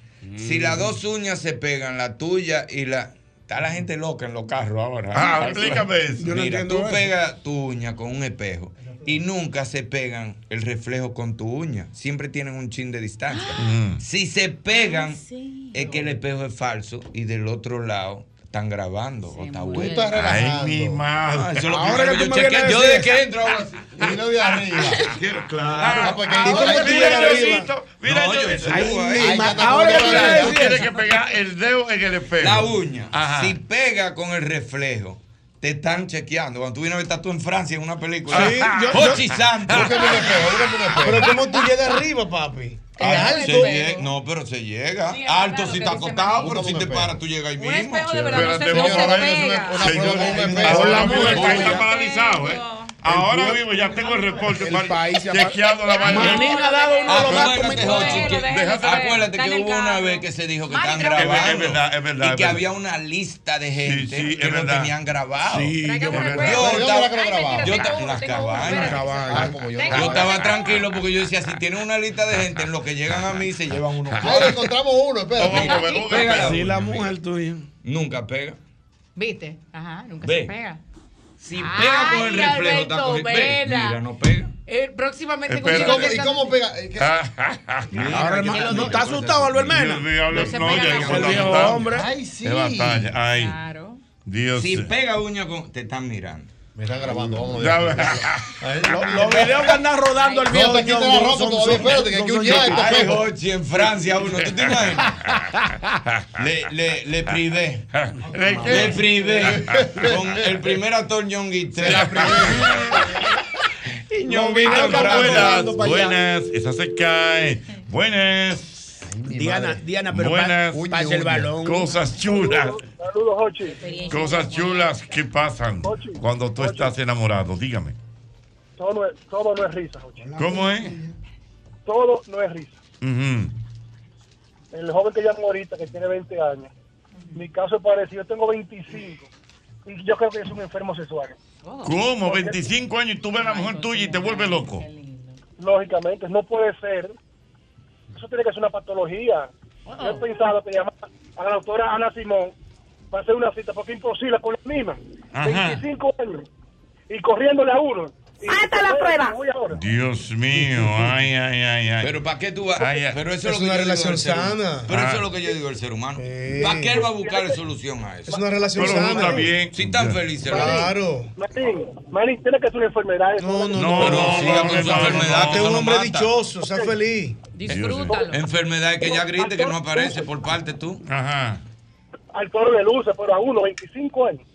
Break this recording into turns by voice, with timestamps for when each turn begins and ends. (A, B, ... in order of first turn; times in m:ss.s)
0:00.4-0:15.2 A
0:00.4-0:00.9 B
0:05.1-0:06.3 C
0:06.2-0:07.0 B
0:13.3-0:13.6 D
0:13.6-0:14.0 C
0:14.7-0:15.9 D
0:15.7-0:20.0 A
0:19.3-0:20.3 D
0:19.7-0:21.0 E
0:20.1-0:21.9 C
0:21.3-0:24.0 A
0:21.7-0:23.1 B
0:23.9-0:25.1 E
0:25.4-0:29.2 C
0:25.7-0:26.0 B
0:25.8-0:26.2 A
0:25.9-0:27.6 E
0:26.4-0:27.7 F
0:26.6-0:27.2 B
0:28.0-0:29.9 A
0:28.6-0:30.8 B
0:29.2-0:30.8 E
0:30.0-0:33.6 C
0:32.4-0:40.4 A
0:38.3-0:40.4 C
0:38.3-0:38.7 F
0:38.4-0:39.1 B
0:39.7-0:41.4 E
0:41.0-0:43.7 F
0:43.0-0:44.1 D
0:43.0-0:48.3 A
0:45.1-0:46.6 D
0:46.4-0:47.2 E
0:47.6-0:50.4 D
0:48.2-0:56.6 C
0:48.5-0:51.4 E
0:50.1-0:51.8 B
0:51.0-0:53.0 D
0:51.2-0:51.8 A
0:53.0-0:58.2 B
0:55.7-1:01.6 D
0:57.0-1:09.1 A
0:57.3-0:59.1 C
1:01.1-1:02.6 C
1:03.8-1:04.9 C
1:05.4-1:06.3 B
1:05.8-1:10.9 D
1:06.1-1:06.7 C
1:06.4-1:07.9 E
1:08.7-1:09.6 B
1:09.3-1:10.4 E
1:09.9-1:14.7 A
1:14.2-1:14.5 C
1:14.2-1:16.0 E
1:15.4-1:16.7 C
1:15.4-1:17.1 A
1:15.6-1:16.3 D
1:16.3-1:17.6 B
1:17.8-1:18.6 A
1:19.2-1:20.8 D
1:20.2-1:20.5 A
1:21.4-1:24.5 A
1:21.5-1:24.0 D
1:24.7-1:26.6 D
1:25.5-1:26.2 C
1:25.7-1:27.1 E
1:27.0-1:28.3 C
1:27.9-1:31.8 A
1:28.1-1:30.1 B
1:28.4-1:29.0 D
1:29.7-1:31.9 C
1:30.3-1:31.7 D
1:31.1-1:32.1 B
1:31.8-1:33.1 E
1:32.4-1:33.6 C
1:33.3-1:34.0 D
1:34.2-1:34.9 C
1:34.6-1:36.5 A
1:36.8-1:39.8 E
1:37.6-1:38.5 C
1:38.8-1:43.1 B
1:40.1-1:40.6 D
1:40.5-1:43.2 E
1:42.4-1:45.2 A
1:46.4-1:47.8 A
1:48.0-1:49.6 C
1:48.6-1:50.6 E
1:48.6-1:52.8 A
1:51.8-1:52.8 C
1:51.9-1:52.5 E
1:54.2-1:56.1 B
1:54.2-1:55.7 A
1:54.6-1:58.9 C
1:59.0-1:59.9 E
1:59.3-2:01.8 B
2:00.1-2:00.9 C
2:00.7-2:01.6 E
2:01.6-2:02.8 C
2:01.9-2:02.2 D
2:02.2-2:03.8 G
2:03.6-2:05.2 D
2:04.1-2:08.0 C
2:05.8-2:06.9 G
2:08.8-2:10.3 G
2:10.3-2:10.6 B
2:10.4-2:11.0 C
2:11.8-2:12.8 G
2:13.0-2:13.5 C
2:14.7-2:16.7 G
2:17.3-2:19.3 G
2:19.8-2:21.4 G
2:21.6-2:22.2 D
2:21.8-2:24.8 C
2:22.3-2:22.6 G
2:23.3-2:25.4 D
2:25.6-2:27.1 G
2:28.1-2:32.5 G
2:29.9-2:30.2 D
2:33.1-2:36.4 G
2:35.3-2:35.8 C
2:37.1-2:39.8 G
2:39.7-2:42.2 C
2:42.0-2:49.2 A
2:42.8-2:43.2 C
2:43.4-2:44.9 F
2:44.9-2:45.3 C
2:46.2-2:47.1 F
2:47.0-2:47.6 G
2:48.3-2:49.5 F
2:48.3-2:49.3 G
2:48.8-2:50.2 C
2:49.7-2:50.9 A
2:50.5-2:54.2 G
2:50.5-2:51.3 F
2:53.4-2:57.4 F
2:53.7-2:55.8 C
2:53.9-2:56.3 A
2:57.5-2:58.4 D
2:57.7-2:58.2 C
2:58.2-3:01.0 A
2:59.0-3:00.2 G
3:01.0-3:01.6 C
3:02.3-3:04.4 G